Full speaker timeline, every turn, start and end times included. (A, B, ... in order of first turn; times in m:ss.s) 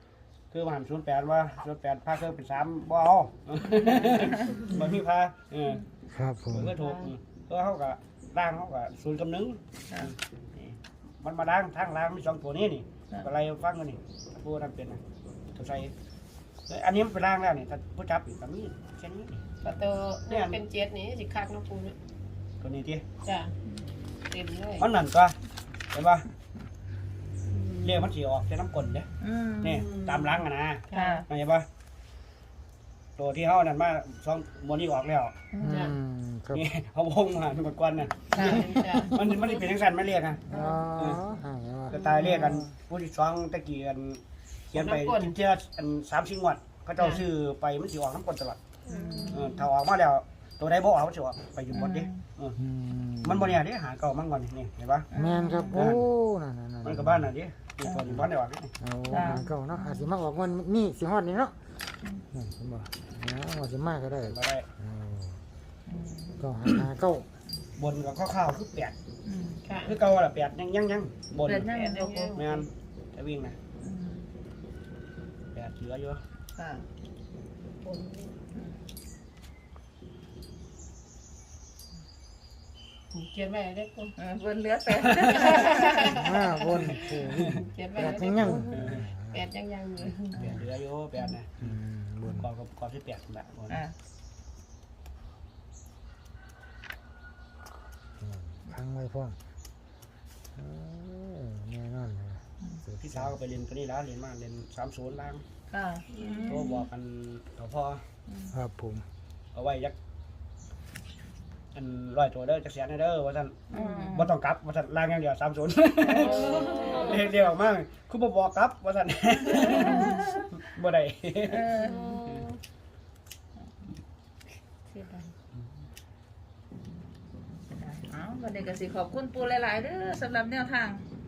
0:00.5-0:05.8 A
0:03.6-0:04.9 B
0:04.1-0:04.6 C
0:06.1-0:06.7 D
0:06.5-0:15.0 A
0:06.8-0:07.1 B
0:15.5-0:15.9 A
0:16.7-0:19.3 A
0:19.6-0:22.0 B
0:20.3-0:20.6 A
0:22.6-0:23.0 A
0:23.2-0:23.6 B
0:24.3-0:24.9 B
0:24.8-0:25.4 A
0:25.9-0:26.3 A
0:27.5-0:28.1 B
0:27.8-0:29.1 A
0:29.2-0:29.8 C
0:29.6-0:31.6 A
0:29.7-0:31.2 B
0:30.9-0:31.2 C
0:33.2-0:35.3 A
0:35.5-0:35.9 C
0:35.6-0:36.6 D
0:35.6-0:35.9 B
0:36.5-0:41.2 A
0:38.3-0:39.2 B
0:38.3-0:39.1 C
0:40.5-0:42.7 D
0:40.5-0:40.8 B
0:41.9-0:48.7 A
0:41.9-0:42.6 B
0:44.7-0:45.4 B
0:47.0-0:47.2 B
0:48.8-0:49.5 B
0:48.9-0:49.6 C
0:49.3-0:52.6 A
0:51.7-0:52.2 C
0:52.6-0:53.6 D
0:53.2-0:55.1 A
0:55.1-0:55.9 C
0:55.2-0:57.3 D
0:55.7-0:56.0 A
0:56.8-0:58.7 A
0:57.8-0:58.2 C
0:58.8-1:01.5 D
0:59.1-1:00.1 C
1:02.3-1:05.4 D
1:04.2-1:04.6 A
1:05.9-1:06.4 C
1:06.4-1:07.3 D
1:07.8-1:08.9 A
1:09.2-1:09.6 C
1:09.6-1:10.0 B
1:09.8-1:11.8 A
1:11.4-1:12.4 C
1:11.7-1:12.7 B
1:12.3-1:13.6 A
1:13.8-1:14.3 C
1:15.5-1:16.2 A
1:16.6-1:16.8 C
1:17.8-1:18.4 B
1:18.5-1:18.8 C
1:23.1-1:24.1 B
1:24.2-1:26.1 C
1:25.2-1:30.5 B
1:26.0-1:29.5 D
1:26.9-1:29.1 A
1:30.4-1:30.7 D
1:30.4-1:31.8 A
1:31.6-1:32.5 D
1:32.4-1:33.8 A
1:33.7-1:34.0 C
1:38.2-1:39.4 D
1:40.5-1:43.3 D
1:43.0-1:45.4 A
1:45.7-1:46.8 C
1:46.1-1:46.8 B
1:46.5-1:48.0 A
1:48.3-1:48.5 C
1:48.5-1:49.0 D
1:49.5-1:49.9 A
1:51.7-2:02.4 A
1:53.7-1:54.4 C
1:53.7-1:54.1 B
1:56.0-1:57.2 C
1:56.2-1:57.2 B
1:59.4-2:00.5 C
1:59.7-2:00.1 B
2:01.5-2:02.0 C
2:01.7-2:02.6 B
2:04.9-2:05.3 B
2:07.7-2:11.0 C